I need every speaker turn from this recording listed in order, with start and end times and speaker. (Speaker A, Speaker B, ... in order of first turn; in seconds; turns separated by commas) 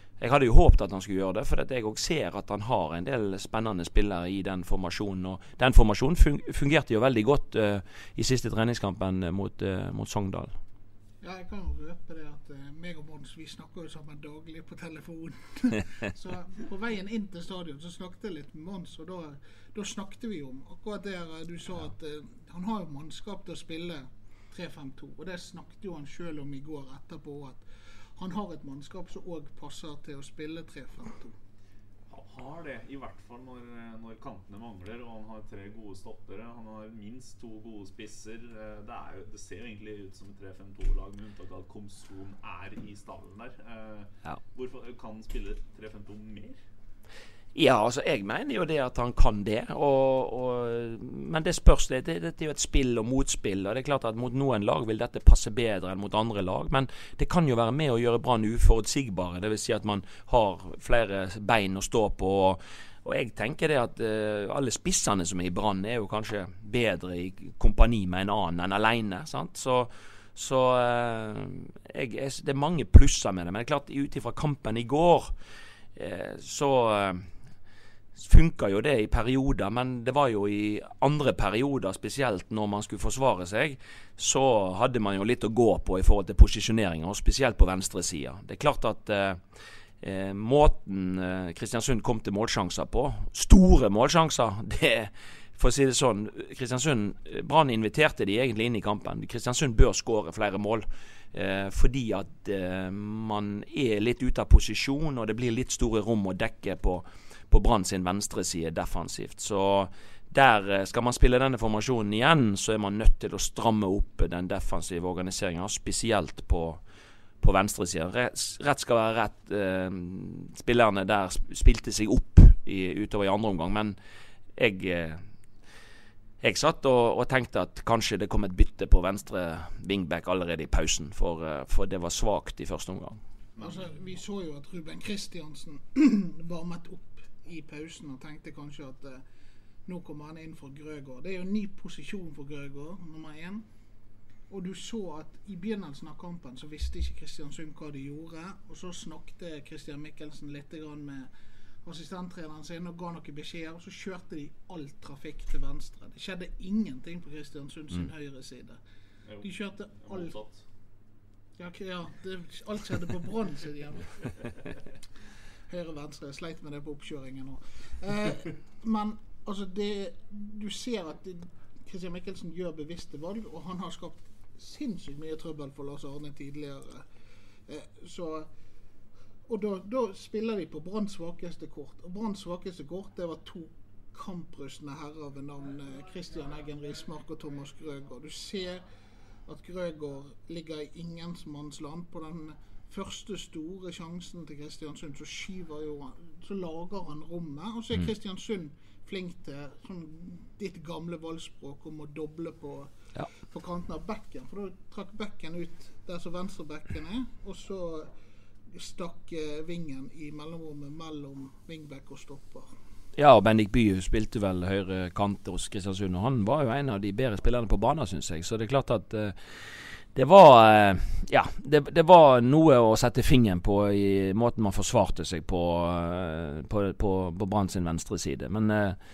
Speaker A: 0.2-10.6, Speaker B: 11.2-27.6, Speaker B: 28.2-31.4, Speaker C: 32.1-46.6, Speaker A: 47.5-75.3, Speaker A: 76.0-77.3, Speaker A: 78.2-89.4, Speaker A: 90.0-116.8, Speaker A: 117.4-124.0, Speaker A: 124.6-125.2, Speaker A: 126.4-133.2, Speaker C: 133.6-133.9, Speaker B: 133.6-139.2, Speaker B: 139.9-143.7, Speaker B: 144.5-151.3, Speaker B: 151.8-158.8, Speaker C: 159.3-160.6, Speaker B: 159.4-160.4, Speaker B: 161.6-164.8, Speaker B: 165.7-177.0, Speaker B: 177.7-178.5, Speaker B: 179.5-188.8, Speaker B: 189.5-202.9, Speaker B: 203.5-208.1, Speaker B: 208.7-212.7, Speaker A: 213.2-219.4, Speaker A: 220.1-229.0